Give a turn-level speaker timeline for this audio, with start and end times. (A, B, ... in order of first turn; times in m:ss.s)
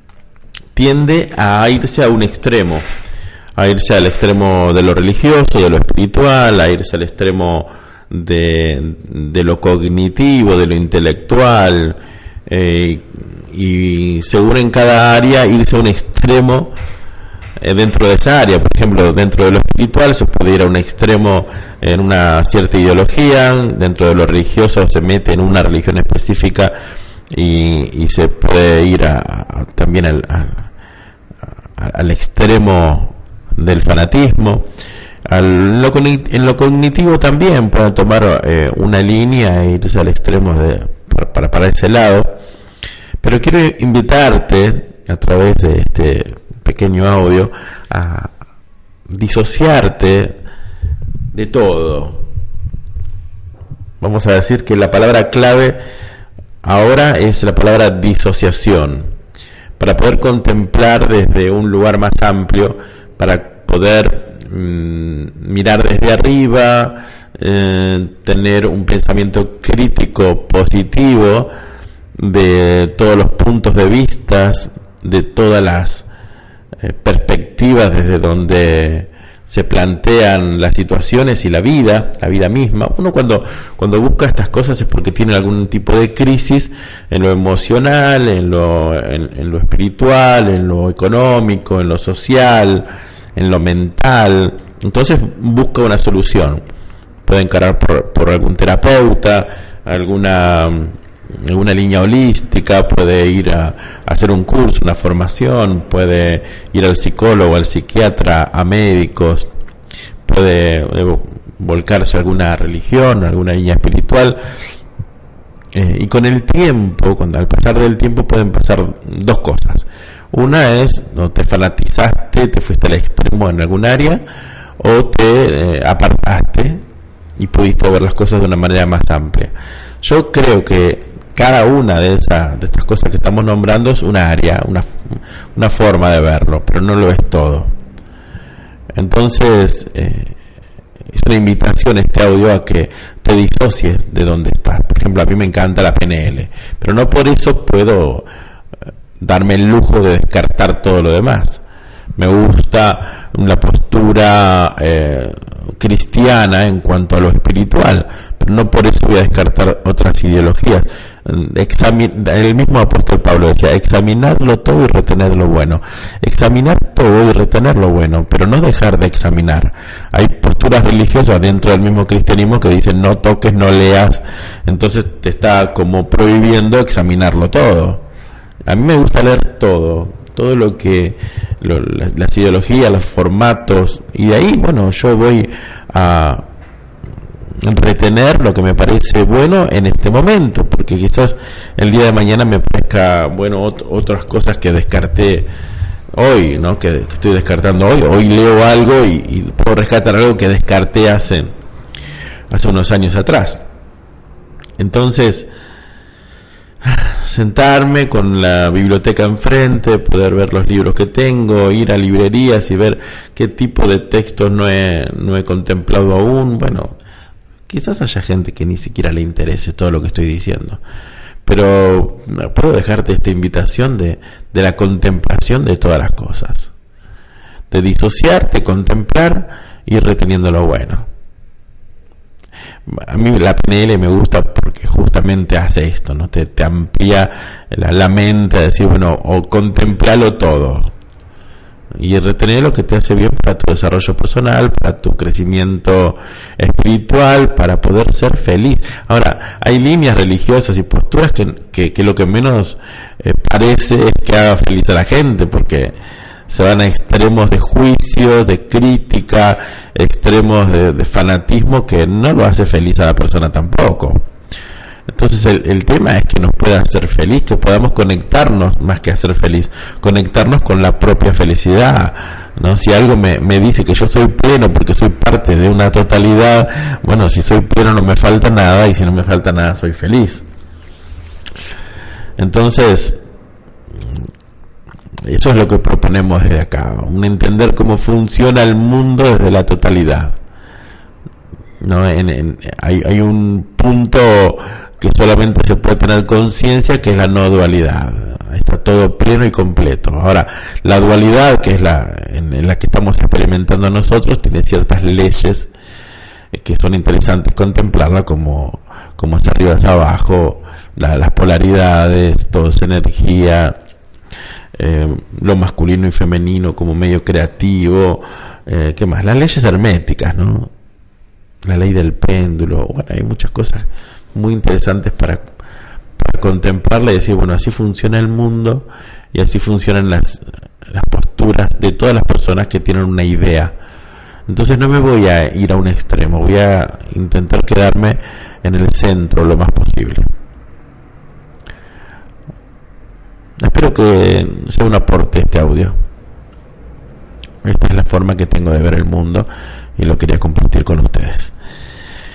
0:00.8-0:02.8 A
0:03.6-0:16.7 A
0:17.6-0:26.7 A
0:27.3-0:30.7 A
0:31.8-0:34.6 A
0:35.3-0:42.4 A
0:43.2-0:48.3 A
0:49.1-0:50.4 A
0:51.3-0:52.3 A
0:54.0-0:55.8 A
0:56.6-0:59.1 A
0:59.8-1:11.5 A
1:12.2-1:16.1 A
1:16.8-1:36.6 A
1:37.3-1:49.5 A
1:50.2-1:54.4 A
1:55.7-2:04.2 A
2:04.8-2:06.8 A
2:07.4-2:17.7 A
2:19.0-2:20.4 A
2:21.1-2:28.3 A
2:29.2-2:31.6 A
2:32.2-2:58.0 A
2:58.7-3:06.5 A
3:07.6-3:15.5 A
3:16.1-3:21.6 A
3:22.5-3:23.6 A
3:24.8-3:25.5 A
3:26.8-3:37.0 A
3:37.7-3:40.8 A
3:41.4-3:46.7 A
3:47.7-3:51.1 A
3:52.9-4:00.9 A
4:02.0-4:16.0 A
4:16.5-4:24.2 A
4:25.1-4:40.4 A
4:42.4-4:43.2 A
4:45.3-4:50.4 A
4:51.8-5:05.7 A
5:06.5-5:13.8 A
5:14.8-5:20.7 A
5:21.6-5:25.4 A
5:26.2-5:33.7 A
5:34.5-5:40.3 A
5:43.6-5:46.0 A
5:47.6-5:51.5 A